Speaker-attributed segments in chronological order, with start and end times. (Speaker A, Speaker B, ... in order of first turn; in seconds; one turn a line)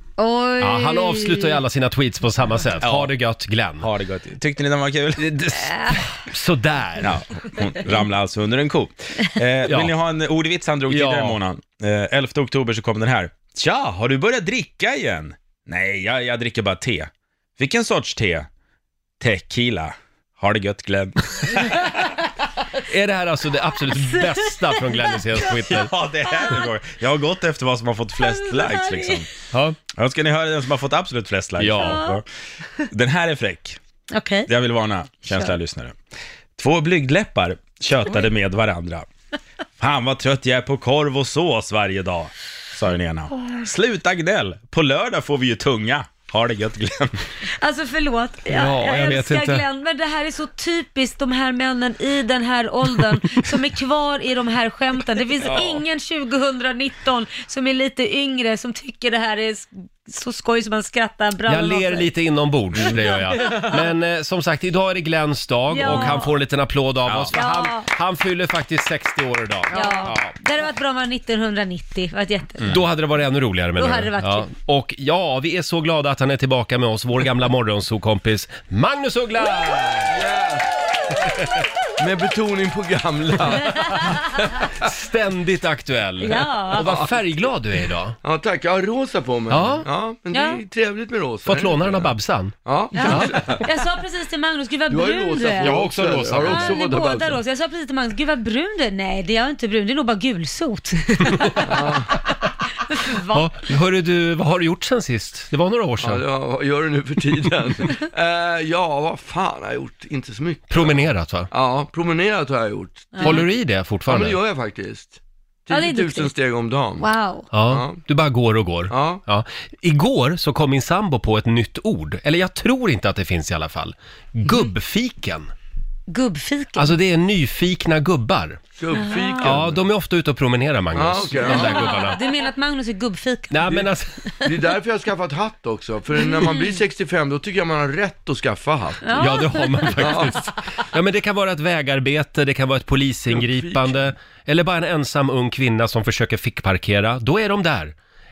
Speaker A: 0.2-1.6
Speaker B: 0.6-3.9
Speaker C: 2.8-3.1
Speaker C: 3.8-5.3
Speaker B: 5.2-7.2
Speaker C: 7.0-18.5
Speaker B: 9.7-9.9
Speaker B: 10.9-11.4
Speaker C: 19.2-22.0
Speaker B: 22.9-25.9
Speaker A: 24.1-25.0
Speaker C: 25.5-29.3
Speaker A: 28.2-29.1
Speaker B: 29.5-29.8
Speaker C: 29.9-32.2
Speaker B: 31.6-32.1
Speaker A: 31.8-32.2
Speaker C: 32.9-33.8
Speaker A: 34.1-34.5
Speaker C: 34.5-36.0
Speaker C: 36.6-39.1
Speaker C: 39.8-47.1
Speaker A: 43.4-43.6
Speaker A: 47.6-62.1
Speaker B: 48.5-49.6
Speaker B: 61.5-70.3
Speaker A: 62.8-63.8
Speaker A: 65.7-66.3
Speaker C: 67.1-67.3
Speaker A: 67.3-67.9
Speaker A: 69.7-72.7
Speaker B: 72.7-80.1
Speaker A: 73.8-74.5
Speaker D: 80.1-80.7
Speaker D: 82.0-84.2
Speaker B: 84.8-88.2
Speaker A: 86.2-86.9
Speaker D: 86.8-87.2
Speaker D: 88.2-93.7
Speaker B: 89.5-89.9
Speaker A: 90.3-90.6
Speaker B: 91.4-93.4
Speaker A: 92.9-95.8
Speaker D: 94.9-97.4
Speaker B: 95.6-96.8
Speaker A: 96.4-101.7
Speaker B: 101.3-101.6
Speaker D: 101.6-102.1
Speaker A: 102.8-103.5
Speaker B: 103.3-106.2
Speaker D: 106.0-113.5
Speaker B: 110.7-111.5
Speaker A: 113.1-113.5
Speaker B: 113.2-114.4
Speaker D: 114.1-117.1
Speaker A: 115.7-116.3
Speaker A: 117.0-117.5
Speaker B: 117.5-125.5
Speaker D: 117.6-118.0
Speaker D: 118.9-119.2
Speaker A: 126.1-126.9
Speaker B: 126.8-128.6
Speaker D: 128.8-129.8
Speaker A: 128.9-129.6
Speaker B: 129.4-132.2
Speaker D: 130.9-132.1
Speaker A: 131.4-133.7
Speaker B: 133.5-134.2
Speaker D: 134.4-139.3
Speaker A: 136.2-136.7
Speaker A: 139.0-140.1
Speaker B: 139.2-147.9
Speaker D: 139.9-140.4
Speaker D: 143.3-144.1